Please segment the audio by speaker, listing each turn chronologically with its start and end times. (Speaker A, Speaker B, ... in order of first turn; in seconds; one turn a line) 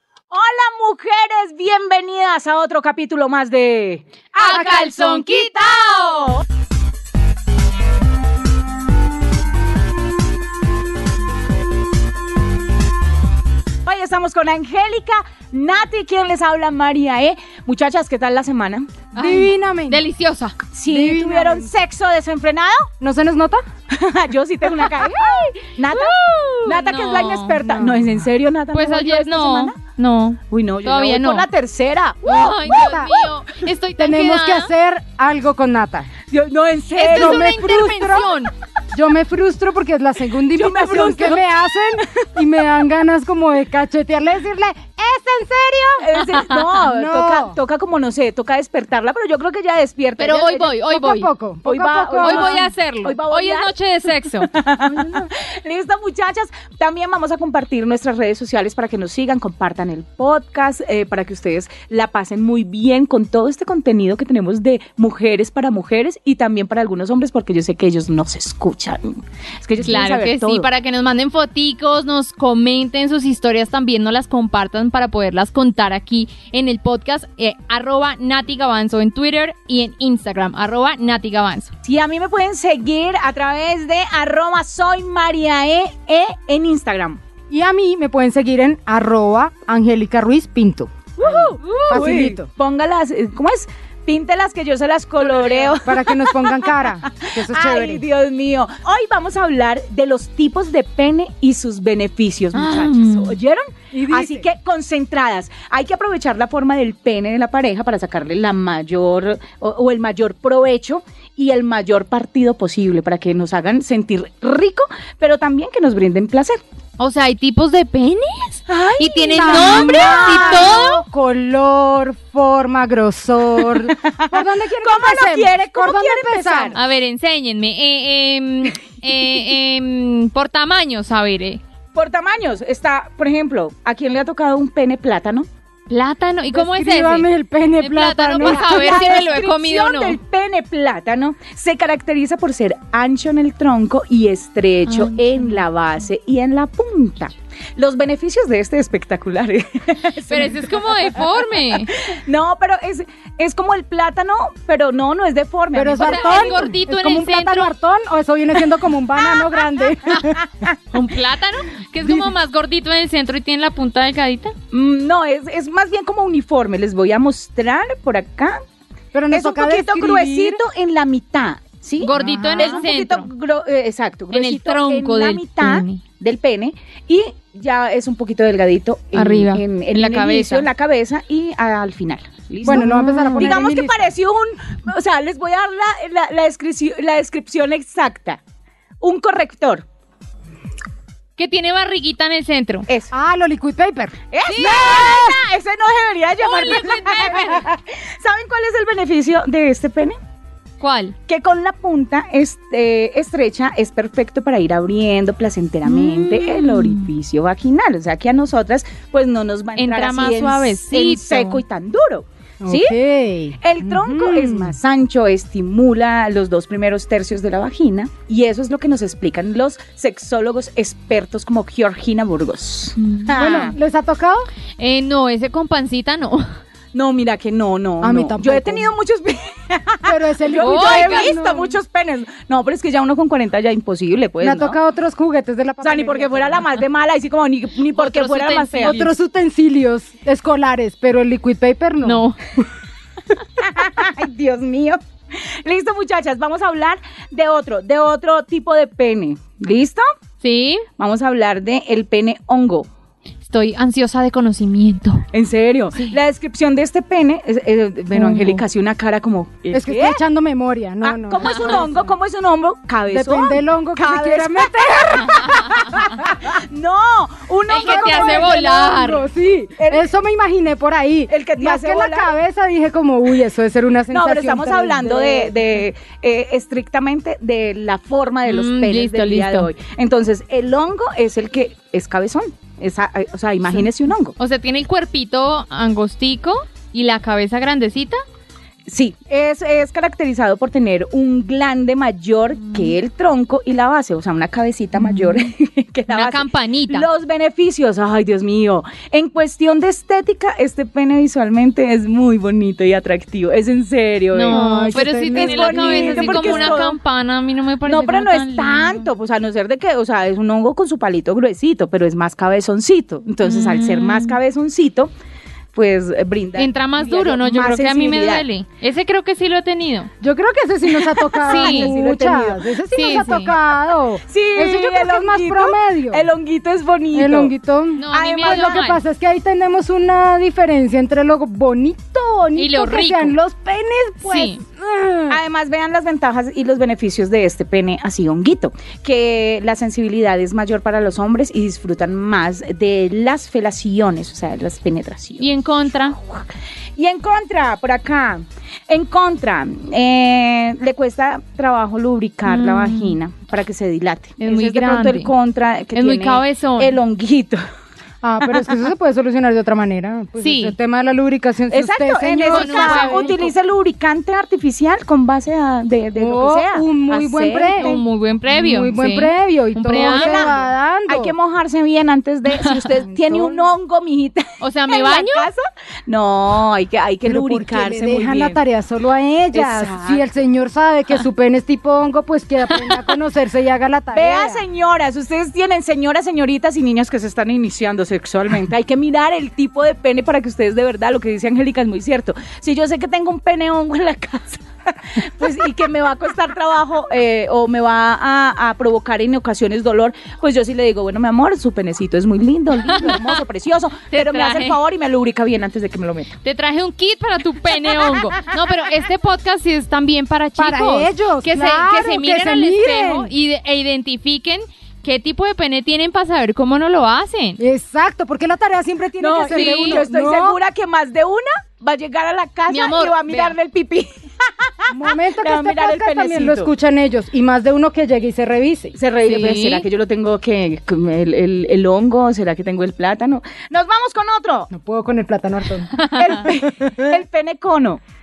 Speaker A: 0.3-6.4
Speaker B: 4.4-6.1
Speaker A: 13.8-19.0
Speaker B: 19.1-20.6
Speaker C: 19.2-20.0
Speaker A: 20.7-22.9
Speaker C: 20.9-21.7
Speaker C: 23.0-23.6
Speaker A: 23.9-29.8
Speaker B: 24.8-27.6
Speaker C: 27.6-28.2
Speaker B: 28.7-31.5
Speaker A: 30.5-33.0
Speaker B: 32.2-34.7
Speaker C: 32.6-33.1
Speaker C: 34.0-36.1
Speaker A: 36.3-37.5
Speaker B: 37.0-38.5
Speaker C: 37.1-38.3
Speaker C: 38.9-46.1
Speaker A: 40.5-42.3
Speaker A: 46.0-50.8
Speaker B: 46.3-46.8
Speaker C: 46.9-47.6
Speaker B: 50.2-51.3
Speaker C: 50.9-52.6
Speaker A: 51.6-53.7
Speaker B: 52.2-54.5
Speaker A: 54.5-70.7
Speaker C: 55.0-55.2
Speaker B: 69.8-81.7
Speaker A: 81.8-87.2
Speaker C: 87.5-92.5
Speaker A: 91.2-116.6
Speaker B: 91.6-91.9
Speaker B: 95.3-95.7
Speaker C: 95.8-98.0
Speaker B: 102.5-103.4
Speaker C: 103.9-104.5
Speaker B: 117.0-121.0
Speaker A: 118.7-120.8
Speaker C: 119.3-126.8
Speaker A: 123.9-126.8
Speaker B: 126.7-131.6
Speaker A: 131.9-135.5
Speaker B: 135.9-140.2
Speaker C: 136.5-139.2
Speaker A: 138.4-156.7
Speaker B: 144.9-145.6
Speaker B: 150.3-151.9
Speaker C: 155.7-160.4
Speaker B: 155.9-157.7
Speaker B: 160.9-164.6
Speaker A: 164.7-168.6
Speaker C: 169.1-170.6
Speaker A: 169.3-188.4
Speaker B: 172.0-173.3
Speaker C: 172.0-172.8
Speaker B: 174.3-176.0
Speaker B: 179.1-180.7
Speaker C: 182.7-184.1
Speaker B: 182.7-183.6
Speaker A: 189.0-189.8
Speaker B: 191.4-192.9
Speaker C: 193.1-195.2
Speaker A: 194.3-200.2
Speaker B: 194.4-195.2
Speaker B: 196.4-197.6
Speaker B: 200.8-201.2
Speaker A: 201.3-213.0
Speaker B: 206.0-207.0
Speaker B: 209.8-211.6
Speaker C: 212.6-214.8
Speaker A: 213.6-223.7
Speaker B: 223.0-223.7
Speaker C: 223.3-224.5
Speaker B: 224.8-226.4
Speaker A: 226.9-234.8
Speaker C: 228.0-228.9
Speaker C: 230.1-231.8
Speaker B: 230.6-231.3
Speaker C: 234.4-236.7
Speaker A: 235.8-239.0
Speaker B: 237.9-239.1
Speaker C: 238.8-242.2
Speaker B: 242.0-242.4
Speaker A: 243.6-250.1
Speaker B: 250.4-250.9
Speaker A: 251.0-252.9
Speaker B: 253.5-255.3
Speaker A: 255.3-260.2
Speaker C: 258.1-258.6
Speaker C: 259.7-262.1
Speaker A: 261.0-268.6
Speaker C: 263.1-266.4
Speaker B: 267.7-269.2
Speaker C: 267.7-275.6
Speaker A: 269.8-270.1
Speaker A: 271.3-272.3
Speaker A: 274.1-284.4
Speaker B: 278.5-279.7
Speaker B: 284.4-288.2
Speaker A: 288.9-306.9
Speaker B: 296.1-297.1
Speaker B: 304.3-309.1
Speaker C: 304.5-306.9
Speaker A: 307.9-315.1
Speaker B: 313.4-314.4
Speaker A: 315.7-318.5
Speaker B: 316.6-320.1
Speaker C: 320.2-326.2
Speaker A: 321.0-322.7
Speaker B: 321.5-321.9
Speaker B: 322.9-323.5
Speaker A: 324.3-327.5
Speaker C: 327.1-335.4
Speaker B: 328.0-329.0
Speaker A: 328.1-328.9
Speaker B: 332.6-333.4
Speaker B: 334.3-334.6
Speaker A: 335.3-345.5
Speaker B: 345.4-346.2
Speaker A: 346.2-357.6
Speaker B: 352.4-353.2
Speaker B: 354.4-355.3
Speaker B: 355.9-357.0
Speaker C: 358.2-363.5
Speaker B: 360.4-360.8
Speaker A: 361.7-368.0
Speaker B: 362.5-363.3
Speaker C: 366.2-371.3
Speaker B: 367.8-370.6
Speaker A: 369.9-378.6
Speaker B: 372.5-372.8
Speaker C: 373.1-373.7
Speaker B: 374.6-375.5
Speaker C: 377.2-384.6
Speaker A: 379.5-380.2
Speaker B: 382.7-383.1
Speaker A: 384.1-406.3
Speaker B: 402.9-403.4
Speaker B: 404.1-404.8
Speaker B: 406.4-417.6
Speaker C: 410.6-413.3
Speaker C: 417.6-420.6
Speaker A: 419.2-426.7
Speaker B: 419.5-420.0
Speaker B: 422.7-423.6
Speaker C: 424.9-429.0
Speaker A: 429.0-434.7
Speaker B: 429.3-429.9
Speaker C: 434.7-436.0
Speaker B: 436.0-436.5
Speaker A: 436.1-438.0
Speaker C: 436.5-437.1